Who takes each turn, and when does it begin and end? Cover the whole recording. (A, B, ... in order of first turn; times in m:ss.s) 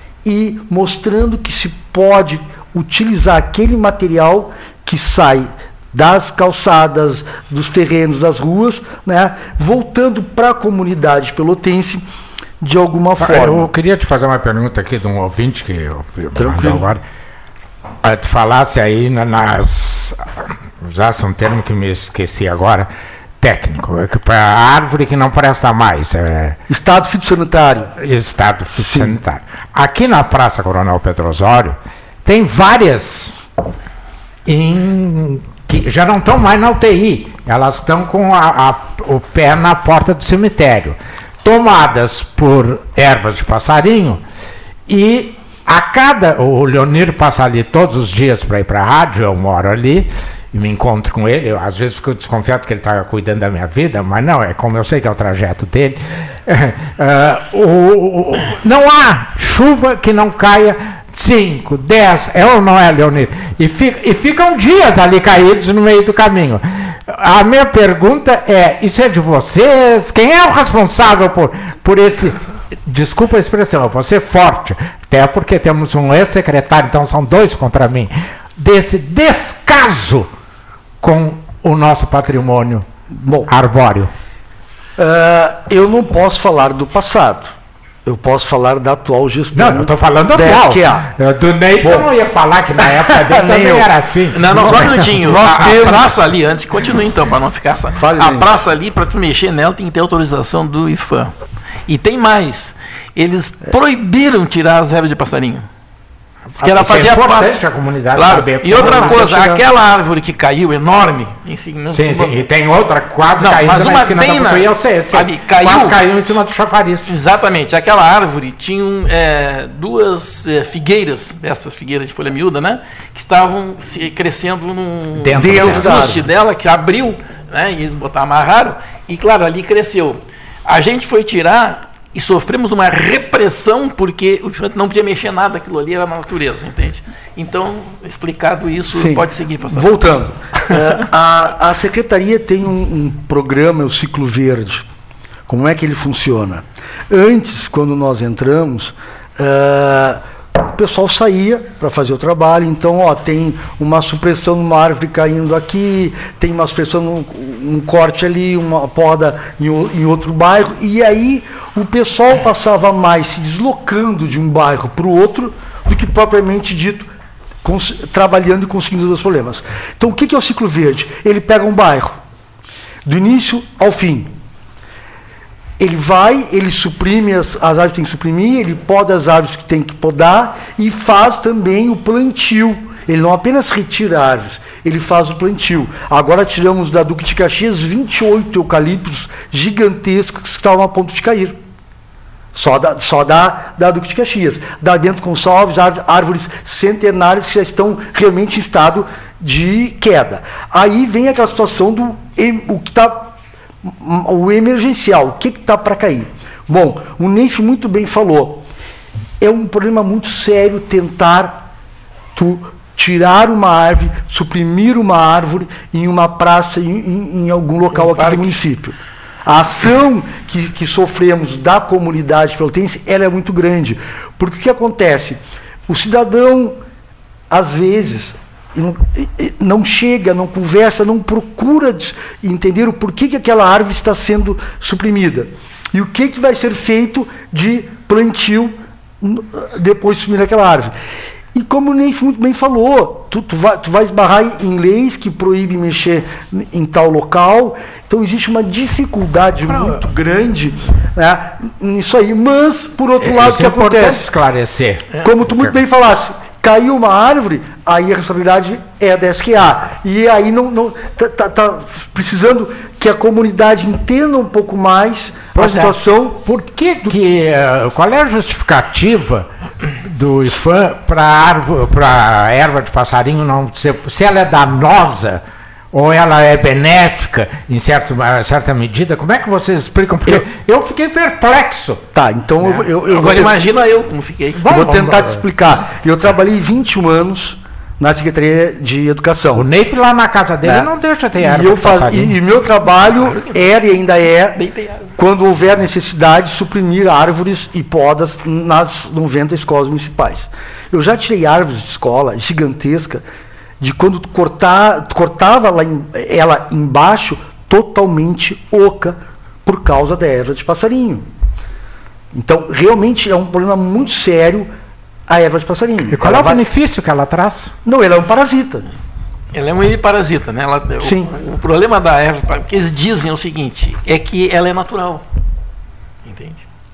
0:00.2-0:12.0 A
0:12.6-0:13.7 A
0:13.2-0:17.0 B
0:16.4-0:16.9 A
0:18.0-0:20.2 B
0:20.8-0:22.9 B
0:23.4-0:26.6 B
0:26.7-0:27.9 A
0:28.0-0:33.3 B
0:28.7-0:29.2 A
0:34.5-0:44.2 B
0:44.9-1:20.3 B
1:21.0-1:22.8 B
1:23.1-1:23.5 A
1:23.5-1:24.1 B
1:25.0-1:27.5 A
1:28.0-1:31.1 A
1:29.5-1:35.8 B
1:31.8-1:32.1 A
1:32.8-1:33.9 A
1:34.3-1:41.3 C
1:34.4-1:36.2 A
1:38.0-1:38.5 A
1:41.9-1:45.7 C
1:46.6-1:49.6 B
1:46.6-1:52.4 C
1:48.7-1:49.6 A
1:51.9-1:57.1 B
1:53.3-1:56.0 C
1:57.1-2:19.9 C
2:05.2-2:06.2 B
2:05.4-2:06.2 A
2:18.9-2:24.9 A
2:25.5-2:47.1 A
2:47.6-2:52.2 A
2:53.0-2:54.3 A
2:55.8-3:11.6 A
3:12.5-3:28.7 A
3:29.4-3:31.7 A
3:32.4-3:46.8 A
3:37.9-3:38.6 C
3:47.5-4:00.9 A
4:01.5-4:14.3 A
4:09.7-4:10.0 B
4:13.2-4:15.8 B
4:15.2-4:26.4 A
4:25.6-4:29.5 B
4:30.0-4:42.0 B
4:42.1-4:43.6 A
4:43.0-4:44.6 C
4:44.6-4:45.4 B
4:44.7-4:49.7 A
4:49.5-4:52.3 B
4:50.6-4:54.6 A
4:53.2-4:53.6 C
4:54.6-4:55.1 C
4:55.2-5:03.2 A
5:03.8-5:11.3 A
5:12.3-5:14.7 A
5:15.3-5:16.7 A
5:16.1-5:17.7 B
5:17.8-5:18.9 A
5:19.5-5:25.2 C
5:21.0-5:21.3 A
5:26.2-5:26.6 C